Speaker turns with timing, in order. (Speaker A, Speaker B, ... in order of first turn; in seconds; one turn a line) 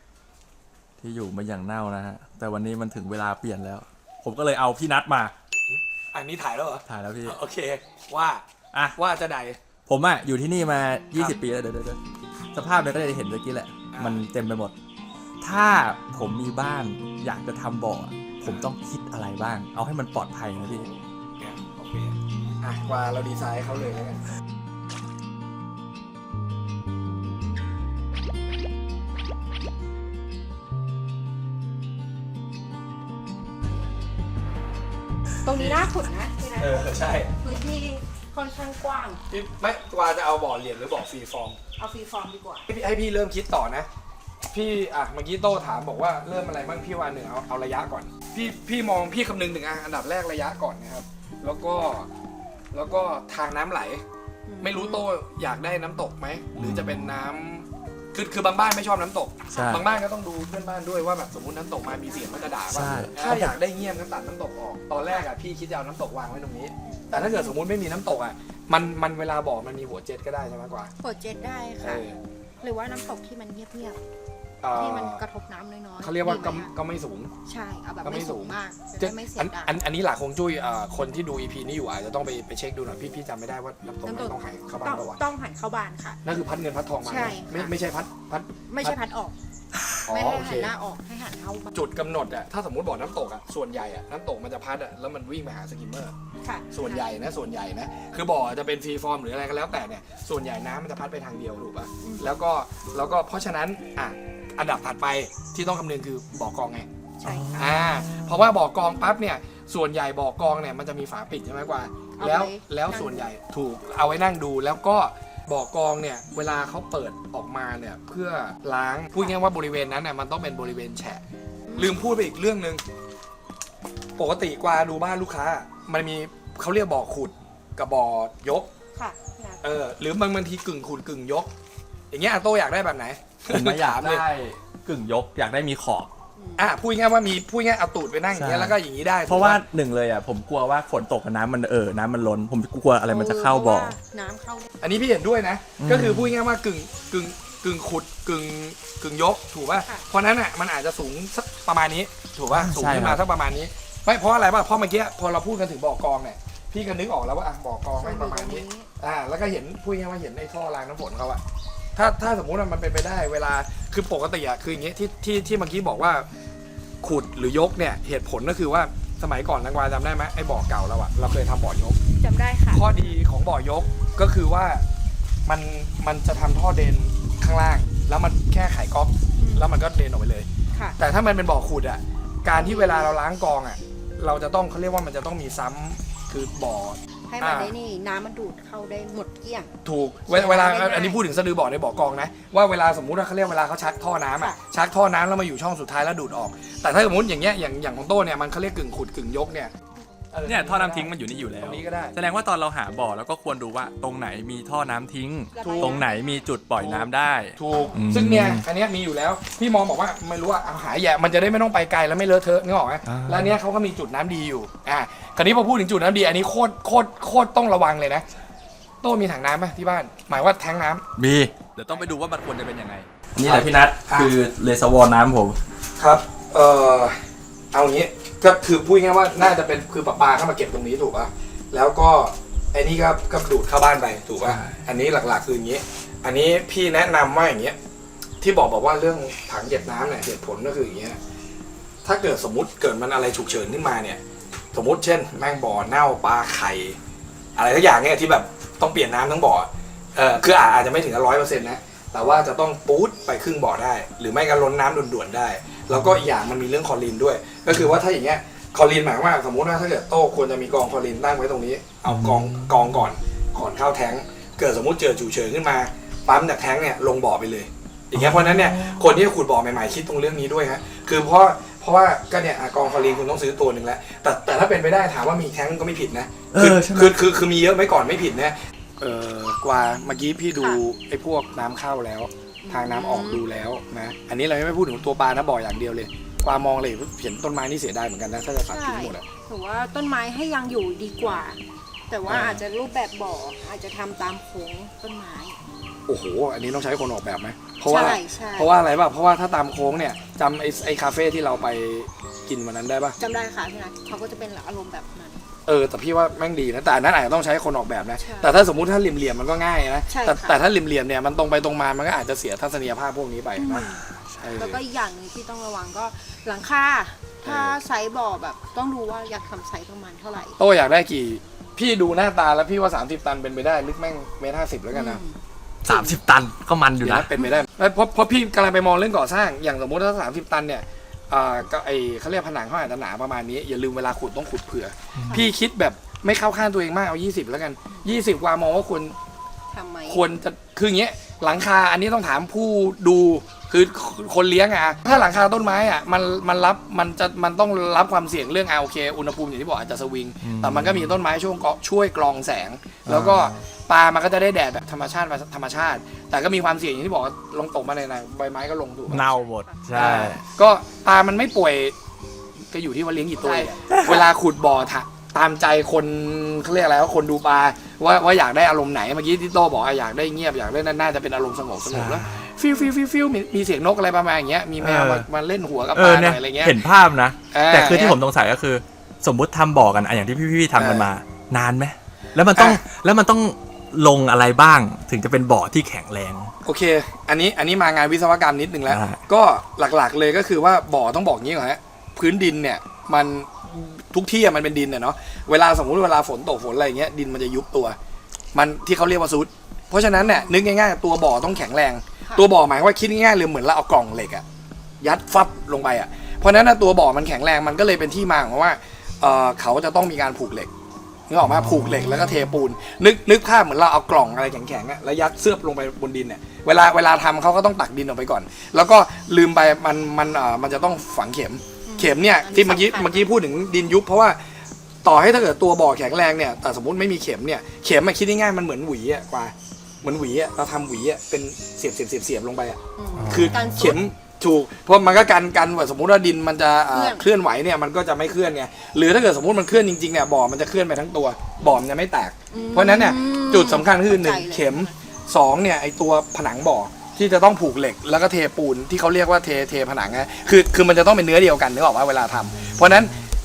Speaker A: 1.0-5.3
Speaker B: 5.7-8.4
Speaker A: 6.8-7.4
Speaker A: 8.7-9.0
Speaker B: 8.9-9.6
Speaker A: 9.9-12.0
Speaker B: 11.1-11.4
Speaker A: 12.5-14.7
Speaker B: 13.9-14.3
Speaker A: 15.4-20.9
Speaker B: 20.6-24.2
Speaker C: 35.4-39.2
Speaker A: 35.5-35.8
Speaker A: 36.6-37.3
Speaker B: 39.3-41.6
Speaker C: 41.8-42.7
Speaker B: 42.7-43.9
Speaker B: 44.5-52.1
Speaker B: 52.7-54.0
Speaker C: 54.5-55.0
Speaker B: 54.6-70.9
Speaker A: 56.6-57.0
Speaker A: 59.5-59.8
Speaker C: 59.5-59.9
Speaker C: 61.8-63.5
Speaker A: 62.7-63.5
Speaker C: 66.9-67.5
Speaker C: 71.0-72.0
Speaker B: 71.8-72.2
Speaker C: 72.6-74.0
Speaker B: 74.6-75.2
Speaker C: 74.7-76.7
Speaker B: 76.0-77.3
Speaker C: 77.4-79.8
Speaker B: 78.0-85.2
Speaker C: 84.0-86.2
Speaker B: 86.2-89.0
Speaker C: 87.0-87.7
Speaker C: 88.7-89.3
Speaker B: 90.1-90.7
Speaker C: 90.1-91.7
Speaker B: 91.7-96.1
Speaker C: 96.4-97.3
Speaker B: 96.7-106.9
Speaker C: 102.0-102.3
Speaker C: 107.2-107.7
Speaker A: 107.2-108.4
Speaker B: 107.5-121.2
Speaker C: 112.1-113.3
Speaker C: 121.7-122.0
Speaker B: 121.8-122.8
Speaker B: 124.2-128.7
Speaker C: 128.9-129.8
Speaker B: 129.6-131.5
Speaker B: 132.1-134.2
Speaker A: 133.5-136.1
Speaker C: 136.4-136.8
Speaker B: 136.6-139.6
Speaker A: 138.3-138.8
Speaker A: 139.3-143.9
Speaker C: 143.1-144.7
Speaker B: 144.8-161.4
Speaker A: 145.8-146.3
Speaker C: 149.7-150.1
Speaker A: 152.5-153.2
Speaker C: 158.0-158.9
Speaker B: 161.9-166.2
Speaker B: 167.0-172.0
Speaker C: 172.2-173.1
Speaker B: 172.7-174.8
Speaker B: 175.4-180.5
Speaker C: 179.4-179.7
Speaker B: 181.0-187.7
Speaker C: 182.5-183.2
Speaker C: 187.3-189.7
Speaker B: 189.8-199.7
Speaker C: 190.3-191.2
Speaker B: 200.3-202.2
Speaker A: 200.4-208.6
Speaker C: 205.5-206.5
Speaker B: 205.6-206.0
Speaker B: 206.8-218.2
Speaker C: 207.7-208.0
Speaker A: 213.1-213.6
Speaker B: 219.0-221.0
Speaker A: 221.2-225.6
Speaker B: 223.4-224.3
Speaker B: 226.0-227.2
Speaker B: 227.7-237.8
Speaker A: 234.4-234.8
Speaker B: 238.4-241.2
Speaker B: 242.0-244.2
Speaker B: 244.7-247.0
Speaker B: 247.6-289.2
Speaker A: 262.1-262.8
Speaker A: 268.1-269.0
Speaker A: 276.5-277.2
Speaker C: 280.6-280.8
Speaker C: 282.6-283.4
Speaker C: 288.6-295.6
Speaker B: 292.3-292.6
Speaker B: 296.1-303.2
Speaker C: 297.9-298.7
Speaker C: 303.2-305.4
Speaker B: 305.7-314.8
Speaker C: 308.2-308.5
Speaker C: 310.1-310.6
Speaker C: 313.6-314.0
Speaker C: 314.6-320.6
Speaker B: 317.4-317.8
Speaker B: 320.6-325.2
Speaker C: 324.9-325.4
Speaker A: 325.8-327.3
Speaker C: 325.9-326.2
Speaker B: 327.0-339.1
Speaker C: 327.4-327.6
Speaker A: 335.1-335.4
Speaker C: 339.7-340.2
Speaker B: 340.1-359.3
Speaker A: 350.4-351.2
Speaker A: 353.1-353.6
Speaker A: 359.1-360.4
Speaker C: 359.1-360.0
Speaker B: 359.9-361.9
Speaker B: 362.7-376.8
Speaker C: 363.4-363.7
Speaker A: 363.9-364.2
Speaker A: 371.8-372.5
Speaker A: 374.8-375.3
Speaker A: 375.9-386.5
Speaker B: 377.5-378.2
Speaker B: 380.7-381.1
Speaker B: 382.5-382.8
Speaker B: 386.6-398.0
Speaker A: 388.9-389.2
Speaker B: 398.5-404.4
Speaker C: 400.2-400.5
Speaker B: 405.0-410.7
Speaker B: 411.3-424.4
Speaker C: 421.9-423.3
Speaker B: 425.0-453.2
Speaker C: 433.0-434.0
Speaker A: 433.1-433.9
Speaker C: 436.9-437.3
Speaker C: 442.5-444.9
Speaker A: 452.6-453.3